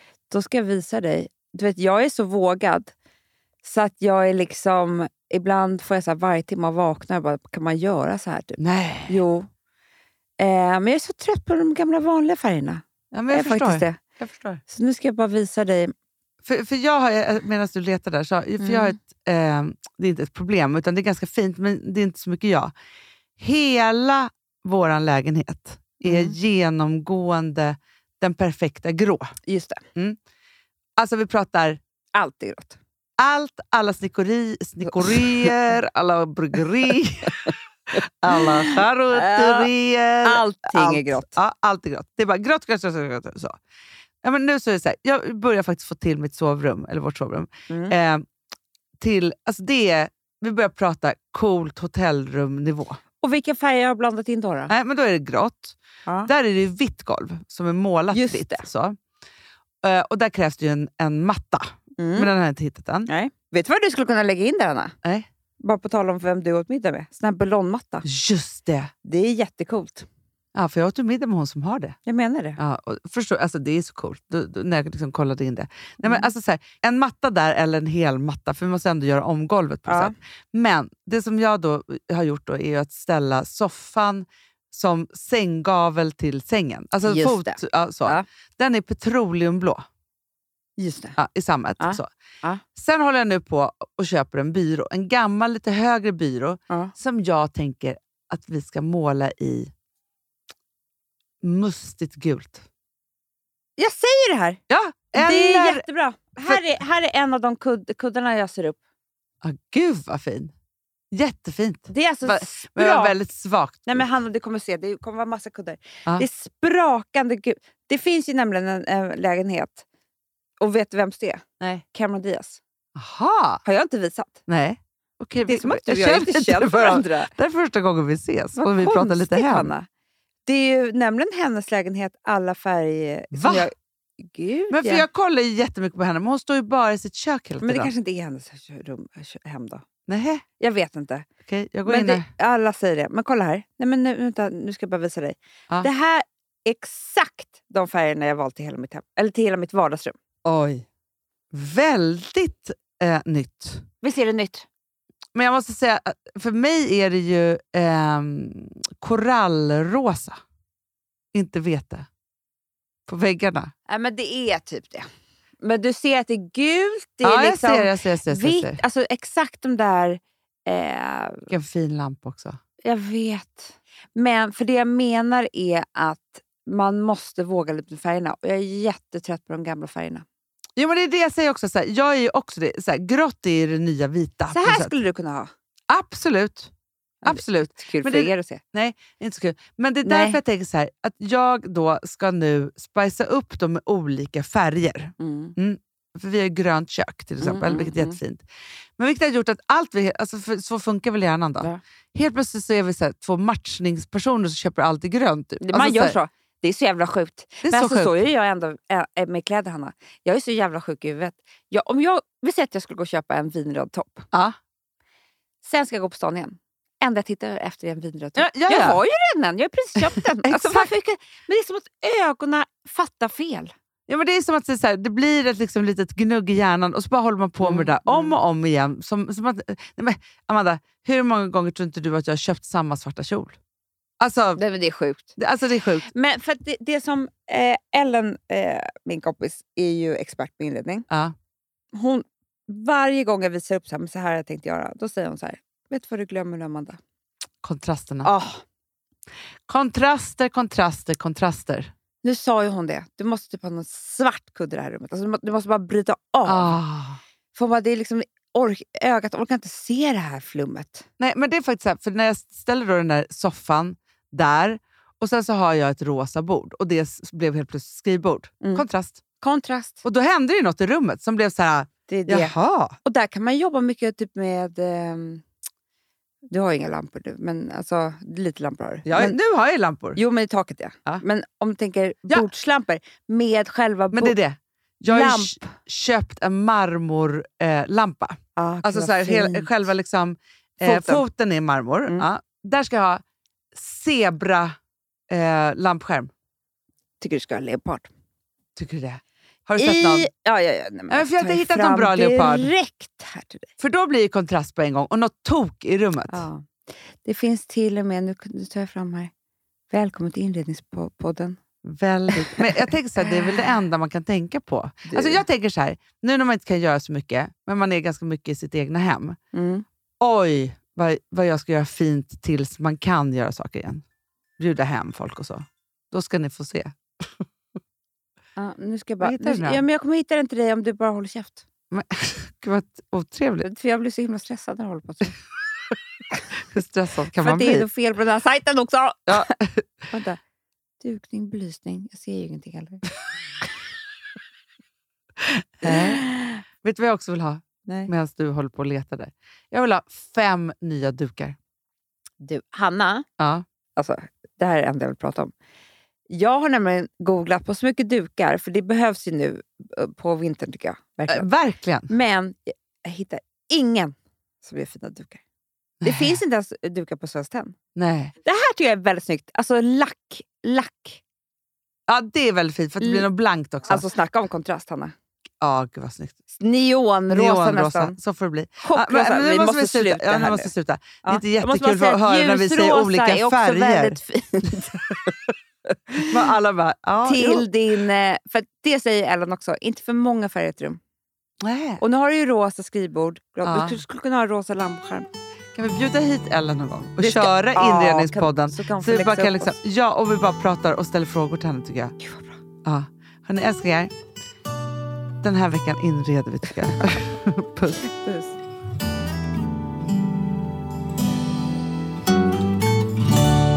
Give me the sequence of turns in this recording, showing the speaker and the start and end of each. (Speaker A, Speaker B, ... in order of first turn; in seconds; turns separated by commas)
Speaker A: 0.3-2.9, Speaker A: 3.6-9.5, Speaker B: 8.6-9.2, Speaker A: 10.4-14.0, Speaker B: 13.1-14.6, Speaker A: 14.7-15.9, Speaker B: 16.4-22.7, Speaker A: 18.6-18.9, Speaker B: 23.4-29.3, Speaker A: 26.0-26.3, Speaker A: 29.5-29.8, Speaker B: 31.0-31.8, Speaker A: 32.1-32.8, Speaker B: 33.2-43.6, Speaker A: 35.0-35.5, Speaker A: 38.3-39.7, Speaker A: 40.2-41.3, Speaker B: 44.2-48.2, Speaker A: 47.7-47.9, Speaker B: 49.0-53.0, Speaker A: 53.2-54.7, Speaker B: 54.7-59.0, Speaker A: 58.1-58.7, Speaker B: 59.8-63.1, Speaker A: 62.0-62.3, Speaker A: 63.1-64.9, Speaker A: 65.6-68.0, Speaker B: 68.0-68.9, Speaker A: 69.0-70.0, Speaker B: 70.5-72.0, Speaker A: 72.0-72.6, Speaker B: 72.6-89.8, Speaker A: 76.0-76.3, Speaker A: 79.8-80.1, Speaker A: 87.0-88.2, Speaker A: 90.8-91.2, Speaker B: 91.2-92.1, Speaker A: 91.8-92.6, Speaker B: 92.7-99.7, Speaker B: 101.4-102.6, Speaker A: 103.8-104.6, Speaker B: 104.7-105.8, Speaker A: 105.1-108.8, Speaker B: 109.4-110.5, Speaker B: 111.1-114.1, Speaker A: 111.9-113.2, Speaker A: 113.9-119.8, Speaker A: 120.6-122.6, Speaker B: 123.0-123.6, Speaker A: 123.6-124.4, Speaker B: 124.5-129.7, Speaker A: 125.5-127.3, Speaker A: 128.6-129.9, Speaker A: 130.4-135.1, Speaker B: 133.3-133.7, Speaker B: 134.7-137.9, Speaker A: 137.6-139.8, Speaker B: 140.1-140.4, Speaker A: 140.6-141.2, Speaker B: 141.4-142.3, Speaker A: 141.8-150.2, Speaker B: 150.4-150.8, Speaker B: 151.5-153.8, Speaker A: 154.0-154.7, Speaker B: 155.3-160.4, Speaker B: 161.3-162.1, Speaker B: 163.1-163.7, Speaker A: 163.9-165.1, Speaker A: 165.6-171.5, Speaker B: 167.2-168.8, Speaker B: 171.5-172.6, Speaker A: 172.8-180.2, Speaker B: 180.8-184.9, Speaker A: 184.5-185.5, Speaker B: 185.9-186.7, Speaker A: 187.2-188.6, Speaker B: 187.2-198.4, Speaker A: 190.0-190.4, Speaker A: 195.2-195.5, Speaker A: 197.4-198.2, Speaker B: 199.0-206.2, Speaker A: 205.6-214.2, Speaker B: 207.6-208.2, Speaker A: 215.6-223.7, Speaker B: 218.3-219.0, Speaker B: 220.4-220.9, Speaker B: 224.1-233.6, Speaker A: 227.6-228.3, Speaker B: 234.2-234.6, Speaker A: 234.6-235.4, Speaker B: 235.4-236.1, Speaker A: 236.1-241.1, Speaker A: 241.9-247.0, Speaker B: 247.6-248.3, Speaker A: 248.2-248.6, Speaker B: 249.7-251.9, Speaker A: 252.2-256.8, Speaker B: 256.4-257.2, Speaker A: 257.5-261.1, Speaker B: 261.2-269.2, Speaker A: 269.4-270.0, Speaker B: 270.0-272.9, Speaker A: 272.1-275.4, Speaker A: 276.5-279.4, Speaker B: 279.0-280.2, Speaker A: 280.1-284.3, Speaker B: 284.1-293.2, Speaker A: 285.1-285.7, Speaker A: 288.6-289.7, Speaker A: 290.8-291.2, Speaker B: 293.7-294.7, Speaker B: 295.3-296.3, Speaker A: 297.2-298.1, Speaker B: 298.8-300.3, Speaker A: 299.8-303.7, Speaker B: 301.1-302.7, Speaker B: 303.8-306.4, Speaker A: 306.3-306.7, Speaker A: 307.2-309.3, Speaker A: 309.9-311.6, Speaker B: 311.8-319.4, Speaker A: 312.3-312.6, Speaker A: 315.1-315.4, Speaker A: 319.5-319.8, Speaker B: 320.2-324.0, Speaker B: 324.6-326.9, Speaker A: 328.6-331.6, Speaker B: 329.2-329.8, Speaker B: 331.9-333.6, Speaker A: 333.6-335.4, Speaker B: 336.7-337.8, Speaker A: 337.4-339.5, Speaker B: 339.3-339.9, Speaker A: 340.1-340.4, Speaker A: 341.0-343.0, Speaker B: 345.5-346.2, Speaker A: 345.8-346.6, Speaker B: 346.8-351.6, Speaker A: 352.4-353.2, Speaker B: 353.4-353.6, Speaker A: 353.9-355.5, Speaker A: 356.3-361.5, Speaker B: 361.3-362.1, Speaker A: 362.1-365.4, Speaker B: 366.0-366.4, Speaker A: 366.0-367.7, Speaker B: 367.9-368.3, Speaker A: 368.4-371.2, Speaker B: 372.1-374.0, Speaker A: 373.0-373.3, Speaker A: 373.8-375.1, Speaker B: 375.6-376.4, Speaker A: 376.6-378.2, Speaker B: 377.3-384.2, Speaker A: 378.8-380.7, Speaker A: 381.2-385.2, Speaker B: 384.8-385.3, Speaker A: 386.1-386.5, Speaker B: 386.2-387.7, Speaker A: 387.2-391.0, Speaker B: 391.6-392.0, Speaker A: 392.0-395.3, Speaker B: 393.6-394.0, Speaker B: 395.7-402.1, Speaker A: 397.2-399.7, Speaker A: 402.2-402.6, Speaker B: 402.8-404.1, Speaker B: 405.4-408.0, Speaker A: 408.0-408.6